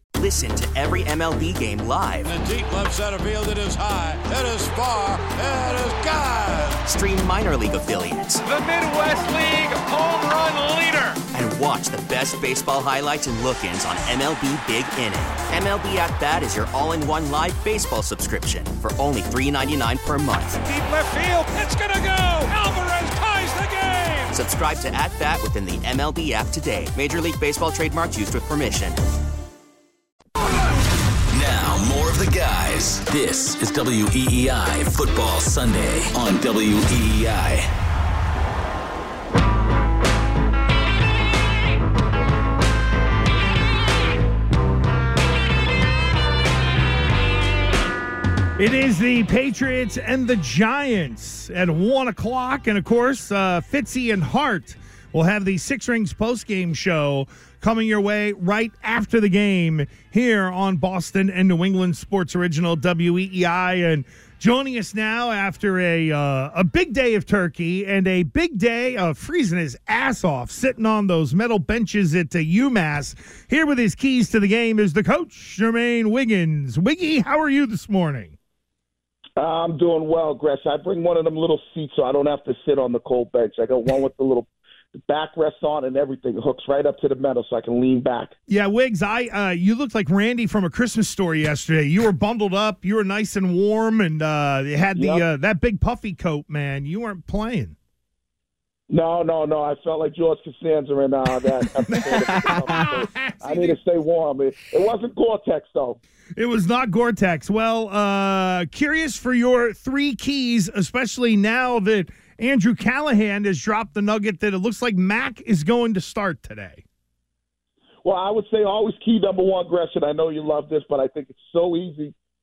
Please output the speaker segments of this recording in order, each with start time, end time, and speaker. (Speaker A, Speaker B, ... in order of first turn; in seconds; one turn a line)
Speaker A: 0.1-2.3
Speaker B: 2.2-6.8
Speaker A: 6.8-8.4
Speaker B: 8.4-11.2
Speaker A: 11.3-20.6
Speaker B: 20.6-24.4
Speaker A: 24.3-29.0
Speaker C: 31.3-37.7
Speaker D: 48.6-78.3
Speaker E: 79.4-88.3
Speaker D: 88.5-97.7
Speaker E: 94.9-95.2
Speaker E: 98.9-106.0
Speaker D: 101.9-103.8
Speaker D: 106.3-116.8
Speaker E: 118.0-122.1